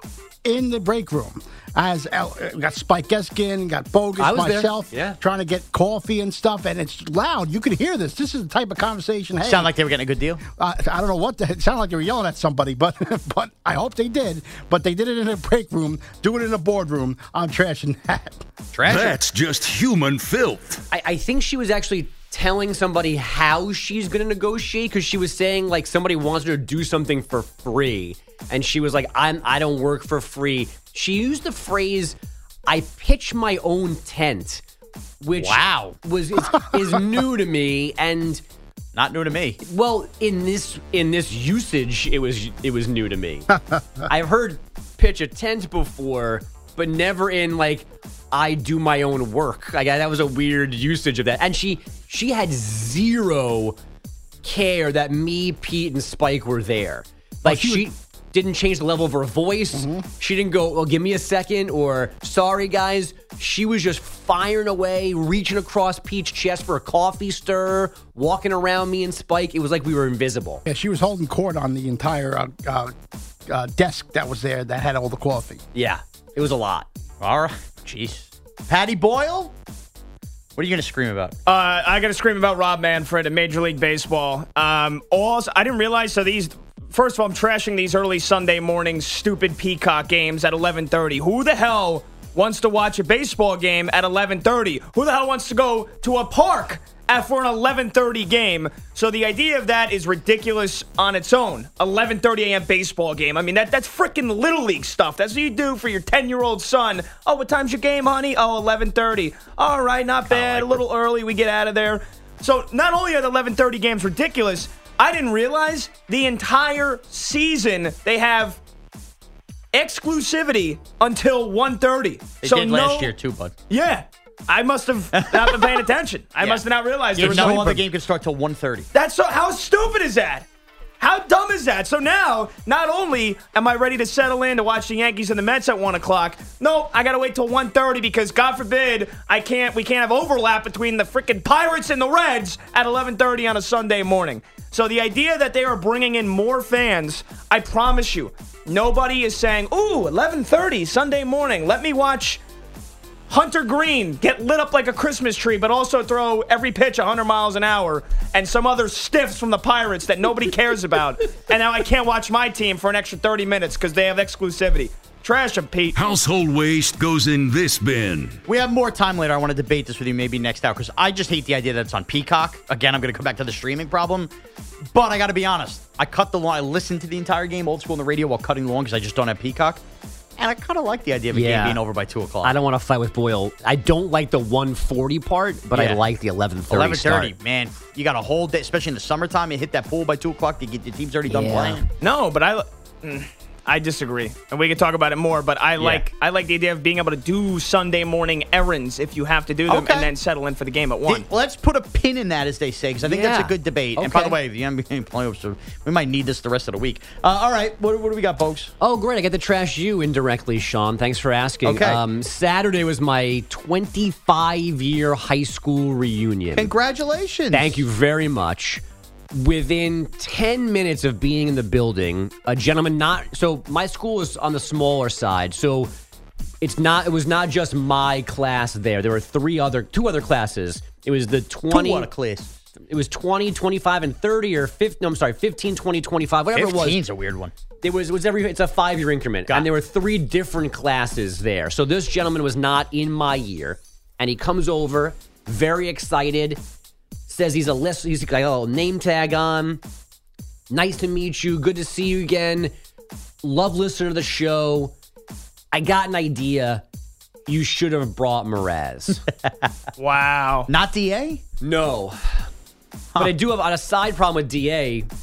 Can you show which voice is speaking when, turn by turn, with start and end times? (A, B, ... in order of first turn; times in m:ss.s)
0:00.4-0:09.7 A
0:04.2-0:05.2 B
0:09.4-0:10.4 C
0:10.6-0:18.4 A
0:18.7-0:19.2 C
0:18.8-0:20.8 D
0:20.9-0:32.2 B
0:32.7-0:34.6 B
0:35.2-0:38.4 B
0:35.4-0:36.0 C
0:39.0-0:39.6 C
0:39.6-0:43.5 B
0:44.1-0:53.8 B
0:54.4-1:10.6 B
0:57.4-0:57.9 A
0:59.8-1:00.1 A
1:10.7-1:12.9 A
1:13.5-1:15.6 A
1:15.7-1:16.9 B
1:17.2-1:19.5 C
1:20.6-1:21.4 C
1:21.5-1:58.6 E
1:50.3-1:50.8 C
1:59.7-2:03.1 E
2:02.4-2:03.5 C
2:03.7-2:07.8 E
2:05.1-2:05.9 C
2:06.4-2:08.9 C
2:07.2-2:07.6 B
2:08.9-2:10.5 E
2:11.0-2:32.4 E
2:33.3-2:46.0 E
2:46.0-2:48.4 D
2:48.5-2:54.3 C
2:54.9-2:59.8 C
3:00.4-3:02.6 C
3:01.3-3:01.8 B
3:02.4-3:07.3 B
3:05.7-3:06.0 C
3:06.7-3:11.8 C
3:11.3-3:11.8 B
3:12.0-3:21.2 E
3:15.8-3:16.1 C
3:19.7-3:20.1 C
3:21.0-3:28.7 C
3:23.0-3:24.4 B
3:28.8-3:36.7 B
3:31.6-3:32.0 C
3:36.5-3:37.8 C
3:37.5-3:45.9 B
3:46.6-3:52.1 B
3:51.7-3:52.6 C
3:52.8-3:57.0 B
3:56.5-3:57.5 C
3:57.8-4:06.6 B
4:07.3-4:09.8 B
4:10.7-4:12.7 B
4:13.4-4:14.9 B
4:15.7-4:16.8 B
4:17.5-4:19.2 B
4:20.0-4:20.7 E
4:20.7-4:21.4 C
4:21.6-4:22.5 B
4:23.2-4:25.1 B